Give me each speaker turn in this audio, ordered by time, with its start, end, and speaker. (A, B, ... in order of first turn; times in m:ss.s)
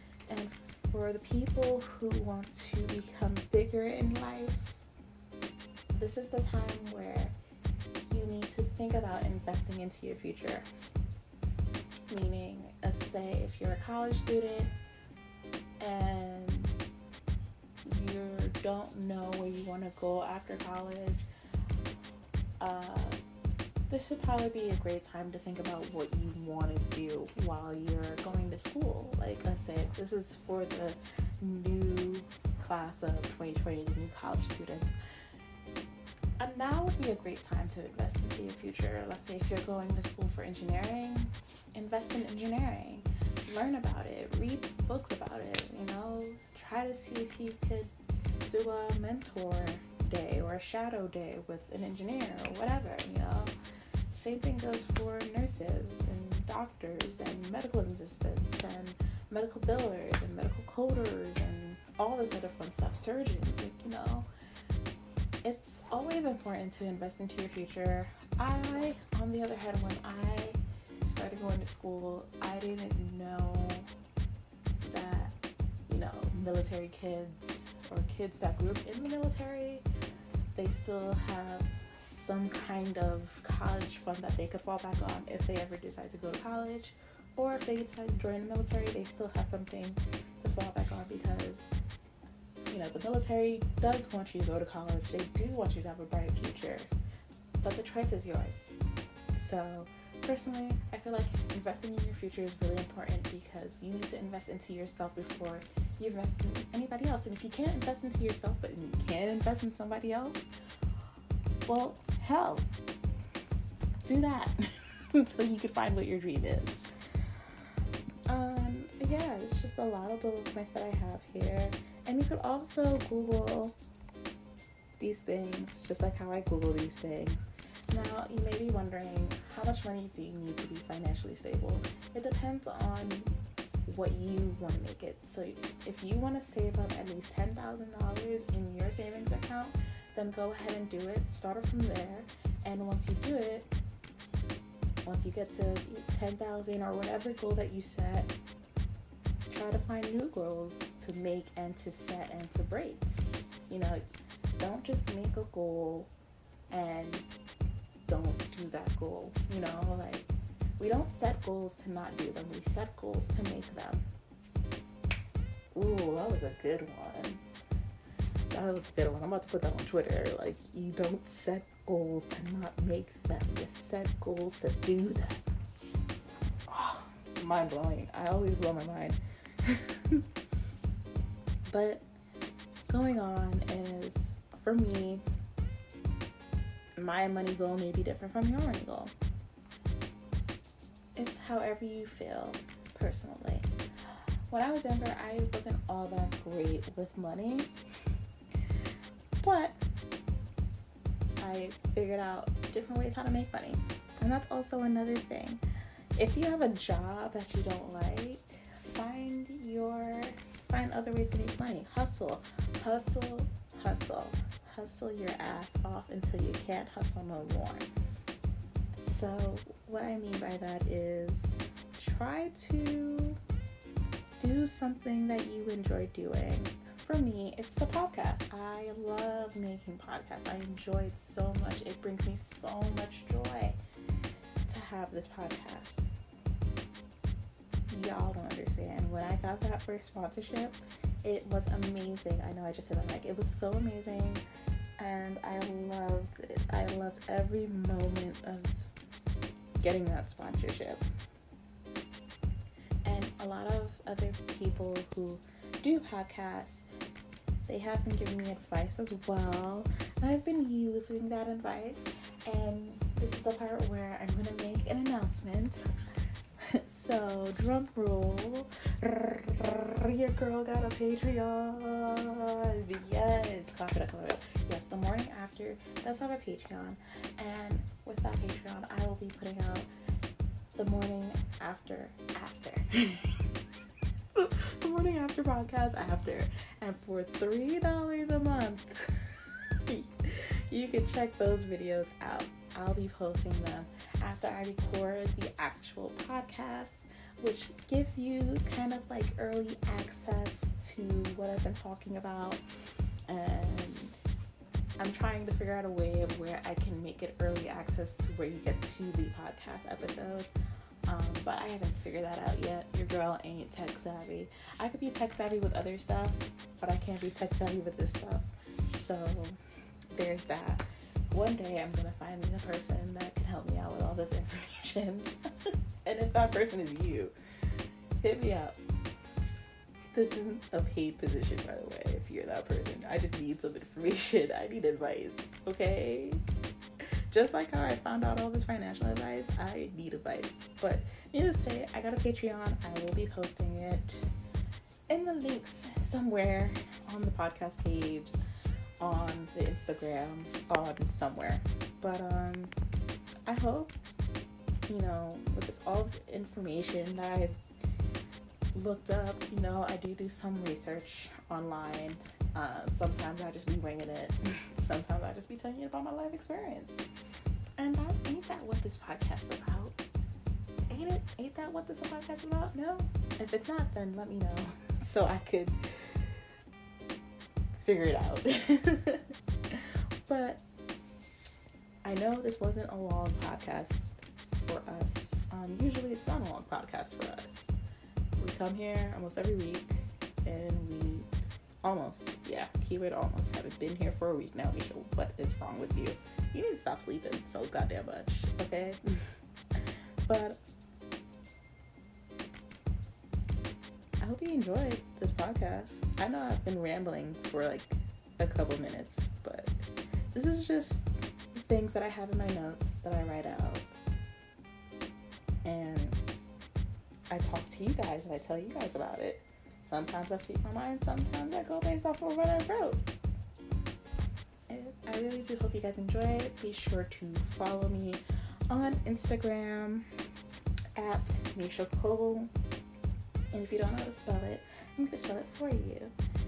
0:00.3-0:04.8 A
0:05.9-0:07.3 A
0:08.1-0:10.6 A
0:12.1-0:14.7 A
0:15.8-0:16.7 A
0:17.8-0:21.2 A
0:22.6-0:23.2 A
0:23.9-0:35.0 A
0:36.4-0:47.9 A
0:48.5-0:53.5 A
0:54.1-1:04.3 A
1:05.4-1:13.9 A
1:14.8-1:15.3 A
1:15.9-1:19.8 A
1:20.5-1:31.7 A
1:32.7-1:36.9 A
1:37.6-1:38.7 A
1:39.3-1:50.5 A
1:51.7-1:52.7 A
1:54.0-1:56.8 A
1:58.3-2:03.8 A
2:05.0-2:13.3 A
2:13.8-2:23.7 A
2:25.0-2:28.3 A
2:29.5-2:33.0 A
2:33.7-2:34.0 A
2:34.6-2:36.1 A
2:36.7-2:37.3 A
2:38.1-2:44.0 A
2:45.7-2:47.4 A
2:48.5-2:55.4 A
2:56.7-3:00.2 A
3:01.7-3:02.0 A
3:02.9-3:05.2 A
3:07.0-3:09.1 A
3:11.2-3:13.7 A
3:14.5-3:17.7 A
3:19.4-3:19.8 A
3:21.4-3:25.6 A
3:26.2-3:37.9 A
3:38.9-3:43.4 A
3:44.4-3:53.8 A
3:54.7-3:56.0 A
3:57.9-4:04.4 A
4:05.0-4:08.9 A
4:09.8-4:11.0 A
4:13.0-4:16.8 A
4:17.7-4:25.8 A
4:26.7-4:39.9 A
4:40.7-4:43.4 A
4:44.3-5:02.6 A
5:03.3-5:04.2 A
5:05.0-5:10.5 A
5:11.1-5:19.6 A
5:20.1-5:27.3 A
5:28.2-5:28.8 A
5:30.1-5:36.4 A
5:37.3-5:44.3 A
5:45.1-5:48.3 A
5:49.0-5:52.7 A
5:53.4-5:53.9 A
5:54.9-5:57.6 A
5:58.7-6:07.0 A
6:07.8-6:10.0 A
6:10.9-6:16.3 A
6:17.8-6:20.6 A
6:22.0-6:27.8 A
6:28.4-6:31.3 A
6:31.8-6:40.6 A
6:44.2-6:49.8 A
6:50.3-6:53.9 A
6:55.6-6:56.2 A
6:57.3-7:03.0 A
7:04.7-7:10.1 A
7:11.0-7:12.5 A
7:13.5-7:16.1 A